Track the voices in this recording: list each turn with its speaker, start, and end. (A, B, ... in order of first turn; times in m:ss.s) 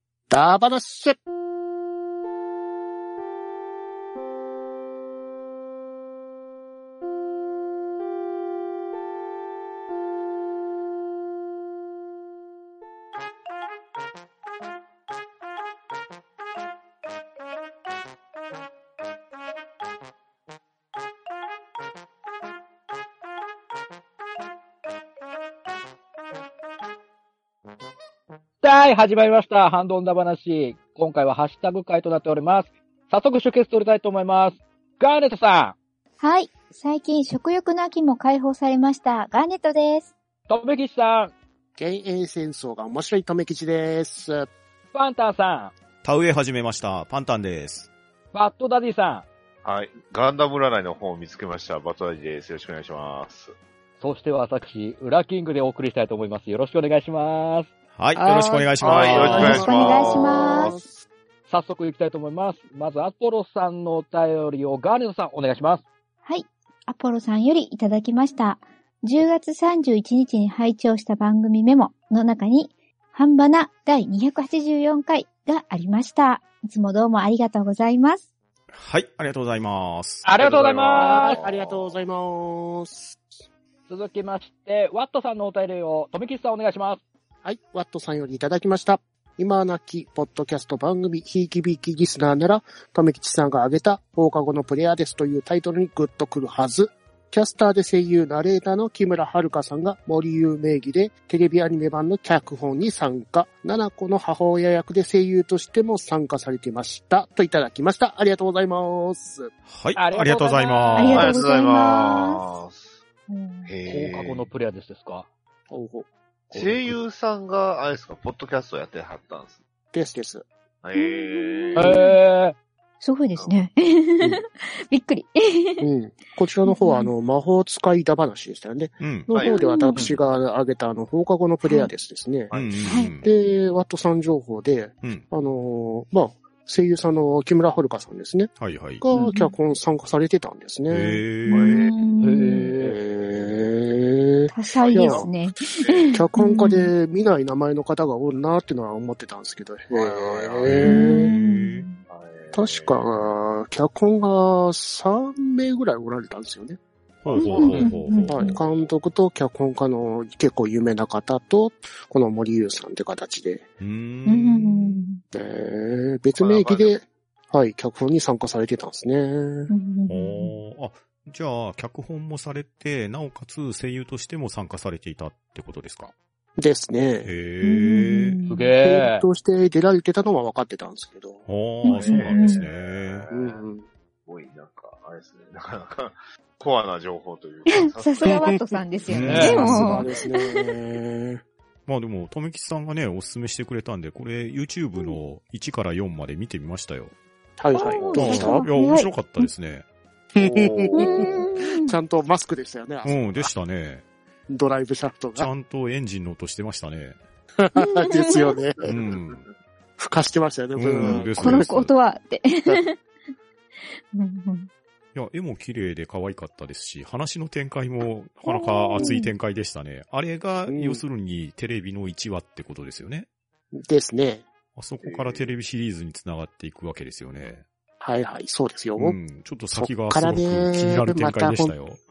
0:00.3-0:01.2 A
0:28.6-0:35.8 B
0:36.2-0:40.1 C
0:40.5-0:41.3 B
0:41.8-0:44.5 A
0:44.9-0:45.7 B
0:46.0-0:47.9 D
0:48.3-0:49.3 B
0:49.6-0:53.6 E
0:54.0-0:57.7 B
0:58.0-1:00.0 D
0:58.2-1:00.9 C
0:58.8-1:00.8 E
0:59.2-1:00.8 B
1:01.5-1:05.8 B
1:06.2-1:18.2 C
1:18.7-1:20.3 D
1:20.2-1:21.4 B
1:20.4-1:22.1 E
1:21.0-1:23.2 A
1:23.9-1:27.0 B
1:27.4-1:49.5 A
1:49.7-1:51.4 D
1:50.0-1:51.3 B
1:51.0-1:52.5 C
1:51.2-1:53.0 E
1:53.3-1:53.7 C
1:53.6-1:54.5 E
1:53.9-1:55.3 B
1:55.7-1:56.1 A
1:56.5-1:59.6 E
1:59.9-2:00.5 A
2:00.8-2:02.0 E
2:01.0-2:02.2 C
2:01.8-2:02.6 B
2:03.0-2:05.9 C
2:05.8-2:12.5 A
2:06.7-2:07.1 C
2:09.0-2:09.3 D
2:09.3-2:09.6 E
2:09.4-2:10.0 C
2:11.7-2:11.9 C
2:12.5-2:12.9 E
2:12.5-2:13.3 D
2:12.8-2:13.1 C
2:13.2-2:21.2 A
2:18.6-2:19.0 D
2:19.2-2:19.5 C
2:20.9-2:21.8 D
2:21.5-2:22.0 E
2:21.5-2:22.7 C
2:22.2-2:23.0 B
2:22.7-2:25.3 A
2:23.1-2:23.7 E
2:24.5-2:26.9 C
2:24.8-2:26.2 E
2:26.1-2:31.3 A
2:29.9-2:30.9 E
2:30.6-2:31.9 D
2:30.8-2:32.0 C
2:32.1-2:33.3 E
2:32.5-2:36.8 A
2:37.2-2:38.4 D
2:37.3-2:38.6 E
2:37.4-2:38.6 C
2:37.7-2:43.6 A
2:43.8-2:45.0 D
2:44.3-2:45.2 C
2:45.3-2:49.7 A
2:46.4-2:47.0 E
2:49.7-2:50.6 C
2:50.1-2:56.1 D
2:56.6-2:57.3 A
2:57.2-2:58.4 D
2:57.6-2:58.8 C
2:58.5-2:59.2 B
2:58.8-3:01.5 A
3:01.5-3:03.3 D
3:01.8-3:02.6 C
3:01.9-3:03.7 E
3:03.3-3:03.9 A
3:04.3-3:08.6 E
3:07.8-3:10.4 C
3:08.3-3:08.6 A
3:09.1-3:10.0 D
3:09.2-3:09.8 B
3:09.4-3:11.4 A
3:11.9-3:17.1 D
3:17.6-3:18.7 A
3:17.7-3:19.5 C
3:17.8-3:18.4 E
3:18.1-3:19.8 D
3:20.3-3:23.5 A
3:20.4-3:21.5 E
3:20.9-3:22.0 C
3:23.0-3:24.0 D
3:24.5-3:25.5 A
3:25.4-3:27.2 D
3:27.6-3:28.9 A
3:27.8-3:28.6 C
3:28.8-3:29.5 E
3:28.9-3:29.4 D
3:30.0-3:31.7 A
3:30.8-3:31.9 D
3:31.0-3:32.9 C
3:34.1-3:34.7 C
3:35.2-3:43.3 D
3:38.5-3:39.3 C
3:39.0-3:39.2 A
3:40.7-3:41.0 A
3:43.7-3:44.4 A
3:44.8-3:47.6 D
3:45.0-3:45.5 E
3:48.0-3:49.2 A
3:49.0-3:52.0 D
3:49.7-3:51.8 A